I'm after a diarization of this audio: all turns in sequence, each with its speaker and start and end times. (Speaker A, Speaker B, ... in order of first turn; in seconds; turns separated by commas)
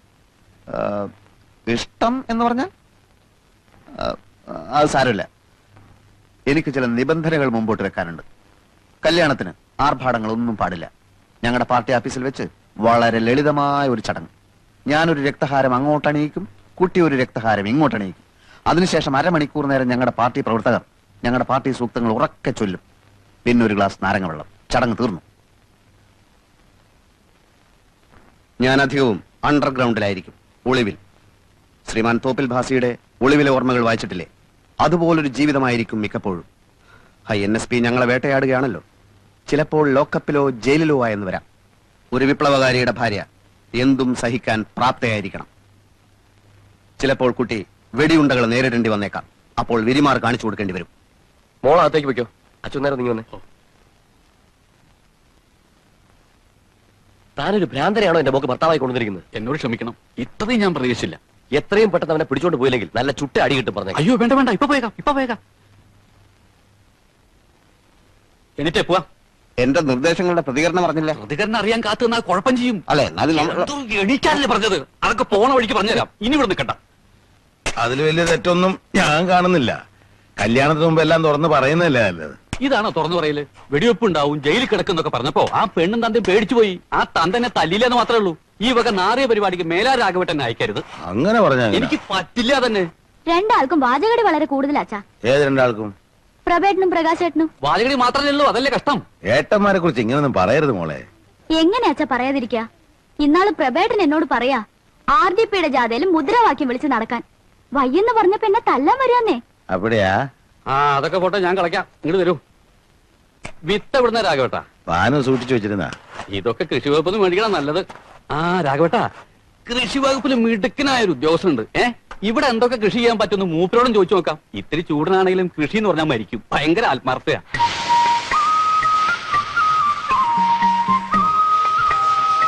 Speaker A: 0.7-1.1, Speaker A: 1.7-2.7, Speaker A: 4.0-5.3, Speaker A: 6.5-8.2, Speaker A: 9.0-10.9, Speaker A: 11.4-14.3, Speaker A: 14.9-22.8, Speaker A: 23.4-25.2, Speaker A: 28.6-31.0, Speaker A: 31.9-34.3, Speaker A: 34.8-36.5, Speaker A: 37.3-38.8, Speaker A: 39.5-41.4, Speaker A: 42.1-43.2, Speaker A: 43.8-45.5, Speaker A: 47.0-50.9, Speaker B: 51.6-53.2, Speaker B: 57.4-59.2, Speaker C: 59.3-61.2, Speaker B: 61.5-64.0, Speaker C: 63.9-65.4, Speaker C: 68.6-69.0, Speaker A: 69.6-71.2, Speaker C: 71.2-72.8, Speaker A: 72.9-73.7, Speaker C: 73.4-76.8, Speaker D: 77.8-79.8, Speaker D: 80.4-82.4, Speaker C: 82.6-90.8, Speaker D: 91.0-92.0, Speaker C: 91.7-92.9, Speaker E: 93.3-95.0, Speaker D: 95.3-95.9, Speaker E: 96.5-97.5, Speaker C: 97.6-99.0, Speaker D: 99.3-101.0, Speaker E: 101.6-102.7, Speaker E: 103.2-107.2, Speaker E: 107.8-109.4, Speaker D: 109.7-110.1, Speaker C: 110.7-112.4, Speaker C: 113.7-114.6, Speaker D: 114.9-115.9, Speaker C: 116.3-119.1, Speaker C: 119.7-127.4